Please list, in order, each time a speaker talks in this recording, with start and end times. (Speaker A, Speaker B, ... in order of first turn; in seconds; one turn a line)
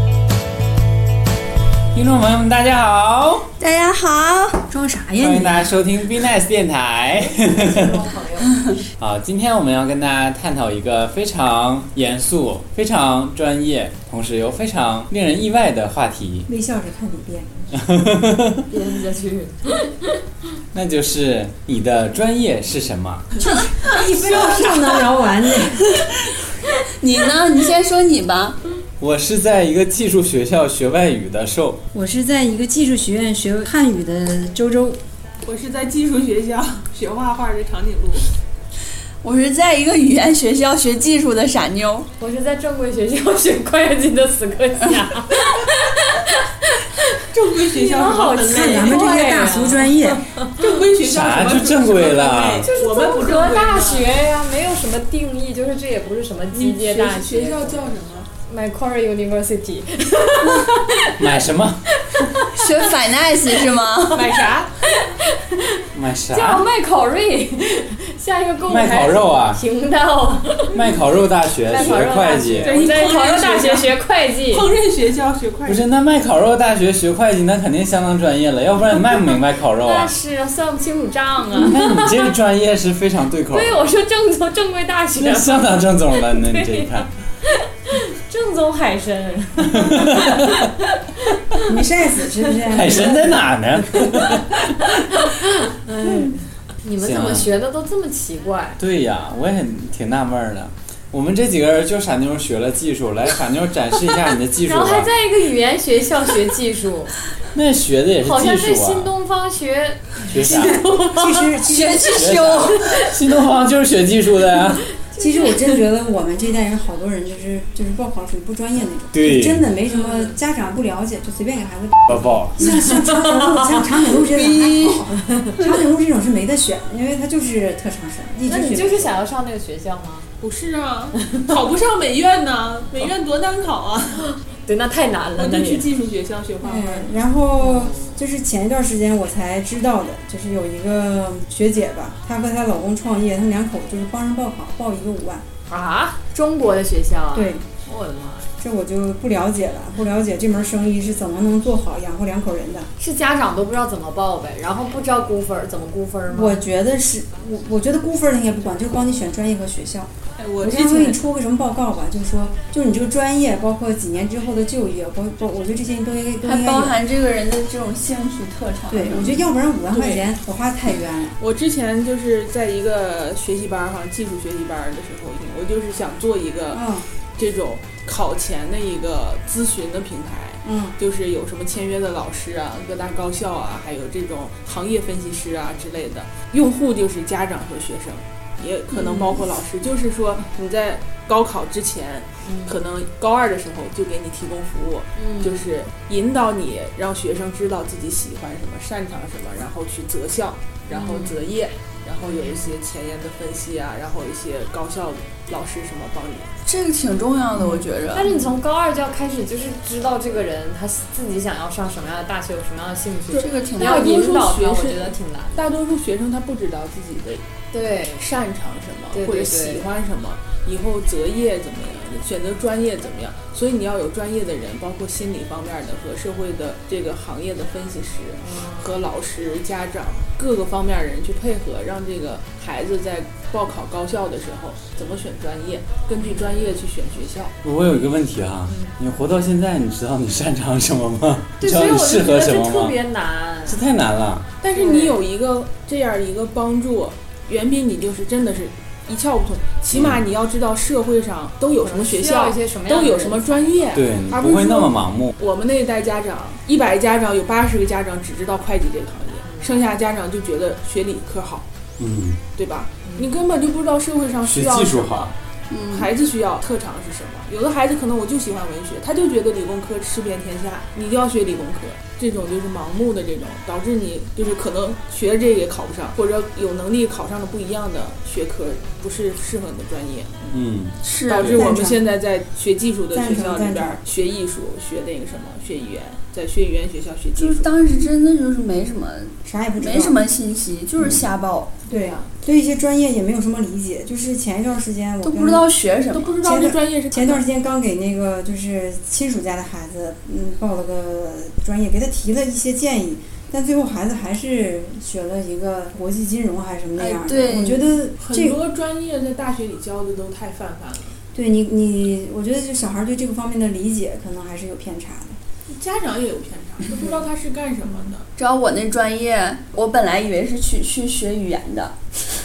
Speaker A: 1.9-3.5
Speaker B: 3.6-4.7
Speaker C: 4.7-5.7
Speaker A: 5.2-8.0
Speaker D: 7.1-8.6
Speaker A: 9.0-16.5
Speaker C: 16.5-17.5
Speaker A: 17.8-18.6
Speaker D: 18.7-20.2
Speaker A: 20.7-23.4
Speaker C: 23.4-25.9
Speaker B: 23.5-25.0
Speaker B: 26.8-28.6
Speaker A: 29.0-31.8
Speaker C: 31.9-35.0
Speaker E: 35.4-38.3
Speaker B: 39.2-42.1
Speaker D: 42.2-50.6
Speaker E: 47.3-49.2
Speaker C: 48.5-50.2
Speaker E: 50.6-54.2
Speaker A: 51.0-52.7
Speaker D: 52.6-61.3
Speaker E: 56.5-58.3
Speaker A: 61.2-61.8
Speaker D: 62.0-62.9
Speaker B: 62.5-64.4
Speaker D: 64.1-70.8
Speaker A: 65.9-66.7
Speaker A: 68.7-69.6
Speaker A: 70.7-72.8
Speaker D: 71.7-74.7
Speaker E: 72.6-75.9
Speaker A: 75.7-80.1
Speaker D: 79.8-82.3
Speaker A: 81.6-83.8
Speaker D: 83.5-91.6
Speaker A: 85.2-87.1
Speaker A: 89.7-90.7
Speaker C: 91.7-93.4
Speaker A: 92.7-95.1
Speaker D: 94.8-98.8
Speaker A: 97.0-97.5
Speaker A: 98.8-105.1
Speaker D: 104.6-107.2
Speaker A: 107.5-109.1
Speaker D: 108.2-111.6
Speaker A: 110.3-110.8
Speaker C: 110.4-112.3
Speaker B: 111.7-113.0
Speaker A: 112.1-114.9
Speaker D: 115.0-115.6
Speaker C: 115.2-129.1
Speaker A: 119.1-119.7
Speaker A: 122.1-122.9
Speaker D: 122.8-123.7
Speaker B: 124.2-125.1
Speaker D: 128.5-130.3
Speaker E: 130.4-134.3
Speaker D: 134.3-135.9
Speaker E: 135.4-137.2
Speaker C: 136.6-145.4
Speaker D: 137.6-138.2
Speaker D: 145.7-148.5
Speaker C: 147.3-147.6
Speaker C: 148.6-152.9
Speaker D: 153.0-156.6
Speaker C: 156.3-167.0
Speaker E: 160.4-161.2
Speaker B: 166.4-169.4
Speaker C: 168.9-171.4
Speaker E: 169.9-170.2
Speaker E: 171.4-206.5
Speaker C: 176.7-177.1
Speaker C: 180.6-180.9
Speaker B: 189.1-189.4
Speaker D: 192.4-192.7
Speaker D: 195.2-195.6
Speaker D: 200.9-201.4
Speaker D: 202.2-202.7
Speaker B: 206.7-208.2
Speaker D: 208.1-215.7
Speaker E: 213.3-217.4
Speaker B: 213.4-214.2
Speaker D: 217.7-218.3
Speaker E: 218.2-237.5
Speaker D: 219.1-219.9
Speaker D: 228.4-228.9
Speaker D: 236.2-236.7
Speaker A: 237.6-243.0
Speaker D: 238.7-238.9
Speaker D: 241.6-243.8
Speaker A: 243.7-244.5
Speaker E: 244.6-261.6
Speaker D: 244.7-245.2
Speaker A: 249.9-250.2
Speaker D: 251.8-254.0
Speaker A: 253.9-255.3
Speaker A: 262.0-262.4
Speaker E: 262.6-265.4
Speaker A: 264.5-265.3
Speaker B: 265.7-266.1
Speaker E: 265.9-280.6
Speaker A: 280.5-281.6
Speaker B: 281.0-281.8
Speaker E: 281.2-287.7
Speaker C: 281.4-282.1
Speaker C: 283.1-284.0
Speaker B: 287.4-291.8
Speaker C: 289.4-290.3
Speaker C: 291.9-295.7
Speaker B: 295.2-296.4
Speaker E: 296.1-297.4
Speaker C: 296.4-308.6
Speaker B: 307.0-307.9
Speaker E: 308.2-311.2
Speaker C: 311.3-315.4
Speaker E: 315.7-318.3
Speaker B: 318.4-322.1